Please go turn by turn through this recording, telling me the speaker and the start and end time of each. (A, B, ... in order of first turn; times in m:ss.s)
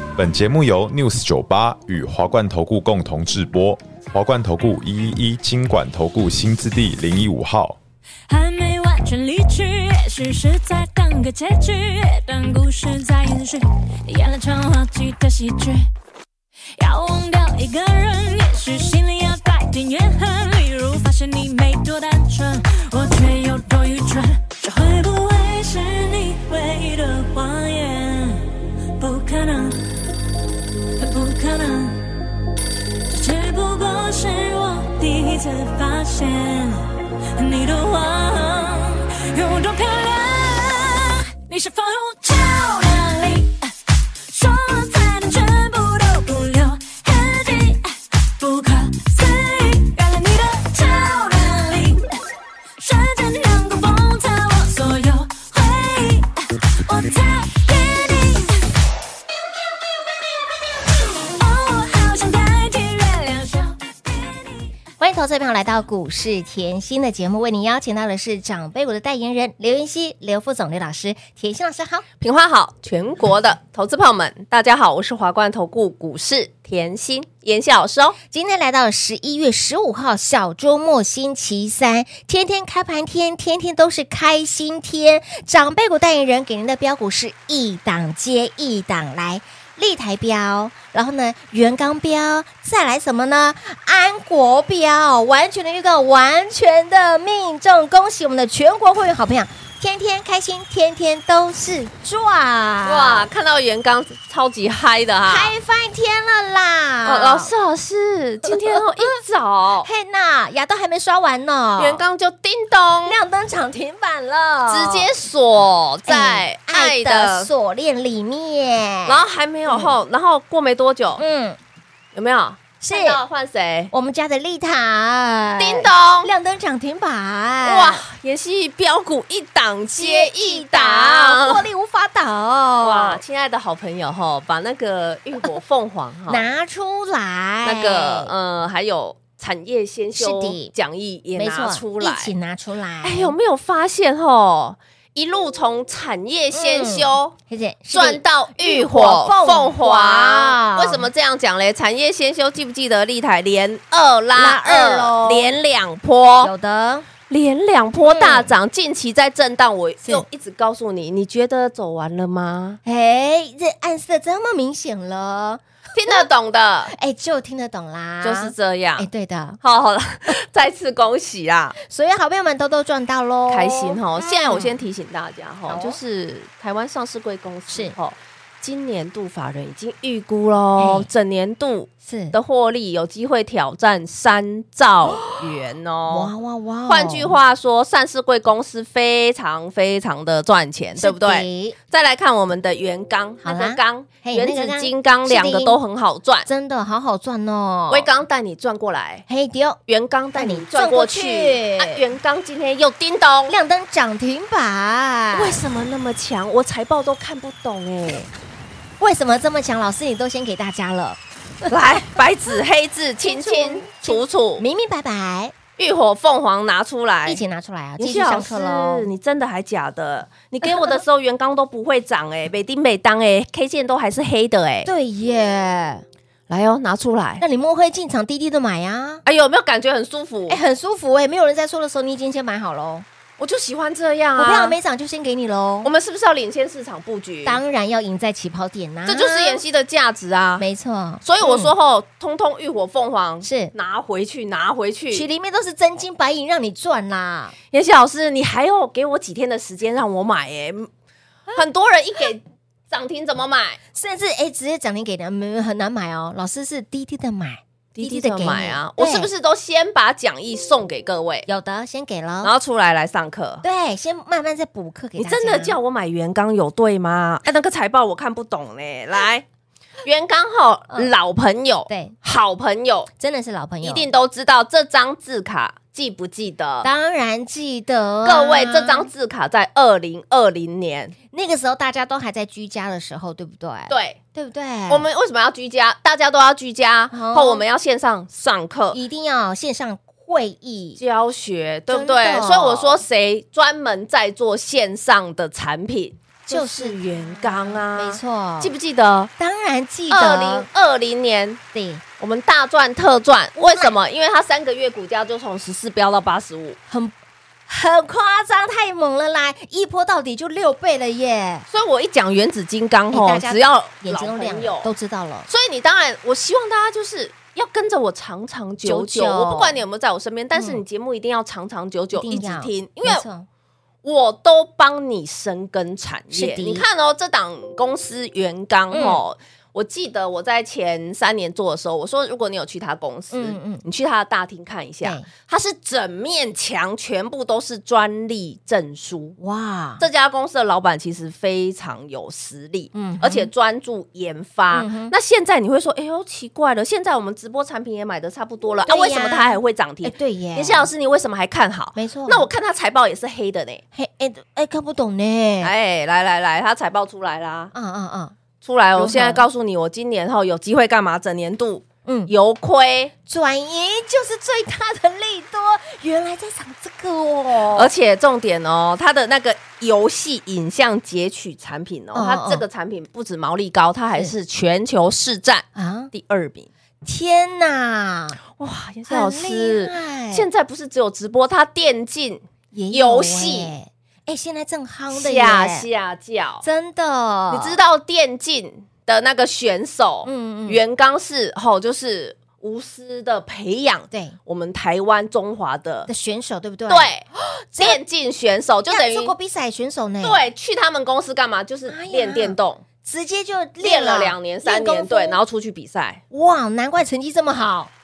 0:00.2-0:07.8 A
0:08.3-0:15.9 B
0:16.8-0:29.8 B
0:31.0-0:32.1 B
0:33.1-0:43.7 B
0:44.3-0:52.1 B
0:52.8-0:58.7 B
1:01.0-1:04.6 B
1:05.0-1:12.1 C
1:12.2-1:18.2 D
1:18.3-1:43.3 C
1:42.8-1:45.6 D
1:45.3-1:47.5 C
1:47.0-1:49.9 D
1:48.5-1:48.8 C
1:49.8-1:52.0 C
1:51.8-1:53.2 D
1:53.1-1:55.1 C
1:54.7-1:57.5 D
1:56.1-1:59.9 C
1:59.1-2:01.2 D
2:01.2-2:01.6 C
2:02.2-2:03.9 D
2:02.8-2:03.2 C
2:03.9-2:08.0 C
2:05.6-2:06.3 D
2:07.6-2:11.6 D
2:10.0-2:13.2 C
2:12.8-2:16.4 D
2:16.3-2:18.3 C
2:17.6-2:22.3 D
2:20.2-2:20.7 C
2:21.4-2:23.4 C
2:23.0-2:27.4 D
2:26.5-2:31.1 C
2:27.9-2:36.5 D
2:34.4-2:35.5 C
2:36.4-2:37.1 C
2:37.3-2:42.8 D
2:38.0-2:38.5 C
2:42.8-2:46.1 C
2:45.9-2:46.9 D
2:46.9-2:49.6 C
2:48.2-2:49.1 D
2:49.6-2:51.8 D
2:51.8-2:54.8 C
2:53.5-3:06.3 D
2:55.7-2:56.0 C
2:57.7-2:58.0 C
3:00.8-3:01.1 C
3:02.0-3:02.4 C
3:05.1-3:05.4 C
3:06.1-3:07.4 C
3:06.9-3:16.5 D
3:11.0-3:11.8 C
3:13.4-3:15.8 C
3:16.5-3:18.1 C
3:17.9-3:19.2 D
3:19.3-3:19.8 C
3:19.9-3:23.6 D
3:20.4-3:22.0 C
3:23.5-3:25.6 C
3:25.3-3:28.3 D
3:29.0-3:32.2 C
3:31.7-3:34.6 D
3:33.2-3:35.6 C
3:35.8-3:37.4 D
3:37.3-3:39.1 C
3:38.0-3:44.9 D
3:40.6-3:41.0 C
3:44.8-3:46.0 C
3:46.5-3:47.4 D
3:47.4-3:49.2 C
3:49.2-3:50.6 D
3:50.5-3:53.1 C
3:53.4-3:54.8 D
3:54.4-3:55.9 C
3:55.8-3:57.6 D
3:57.4-3:59.6 C
3:59.1-4:00.7 D
4:00.6-4:01.7 C
4:01.2-4:05.3 D
4:03.4-4:03.7 C
4:05.1-4:07.6 C
4:07.7-4:10.9 D
4:11.5-4:13.8 D
4:13.9-4:19.3 C
4:18.0-4:21.5 D
4:21.5-4:22.5 C
4:22.4-4:23.6 D
4:23.6-4:25.8 C
4:25.2-4:29.5 D
4:30.0-4:33.1 D
4:31.9-4:32.2 C
4:33.2-4:34.1 C
4:33.8-4:36.9 D
4:36.8-4:39.1 C
4:38.2-4:41.2 D
4:41.3-4:45.1 C
4:43.9-4:44.2 D
4:44.9-4:49.0 D
4:47.1-4:47.6 C
4:48.9-4:51.0 C
4:51.0-4:59.3 D
4:51.9-4:53.0 C
4:56.5-4:58.7 C
4:59.4-5:00.7 C
5:00.1-5:01.6 D
5:01.7-5:02.0 C
5:02.2-5:06.8 D
5:03.6-5:03.9 C
5:06.9-5:07.2 C
5:07.7-5:11.7 C
5:11.7-5:14.9 D
5:13.1-5:15.5 C
5:15.5-5:23.2 D
5:18.8-5:19.8 C
5:20.6-5:20.8 C
5:22.1-5:23.5 C
5:24.0-5:39.4 D
5:26.3-5:26.9 C
5:28.9-5:29.2 C
5:33.3-5:33.8 C
5:35.0-5:35.3 C
5:39.4-5:40.0 C
5:40.0-5:53.8 D
5:42.9-5:43.5 C
5:44.7-5:45.1 C
5:48.9-5:50.9 C
5:52.0-5:52.5 C
5:53.9-5:55.7 C
5:55.6-5:57.7 D
5:57.7-5:58.4 C
5:58.6-6:03.1 D
5:59.0-5:59.4 C
6:02.0-6:02.3 C
6:03.3-6:07.9 C
6:07.7-6:16.7 D
6:12.1-6:12.6 C
6:15.8-6:16.1 C
6:17.0-6:18.4 C
6:18.6-6:23.7 D
6:19.1-6:20.5 C
6:22.7-6:25.9 C
6:25.1-6:26.6 D
6:26.6-6:27.8 C
6:27.5-6:36.1 D
6:30.2-6:30.8 C
6:34.1-6:34.4 C
6:36.1-6:37.1 C
6:36.9-6:37.3 D
6:37.7-6:38.0 C
6:37.8-6:39.3 D
6:38.9-6:40.4 C
6:40.2-6:42.8 D
6:41.9-6:45.4 C
6:43.8-6:46.2 D
6:46.3-6:47.9 C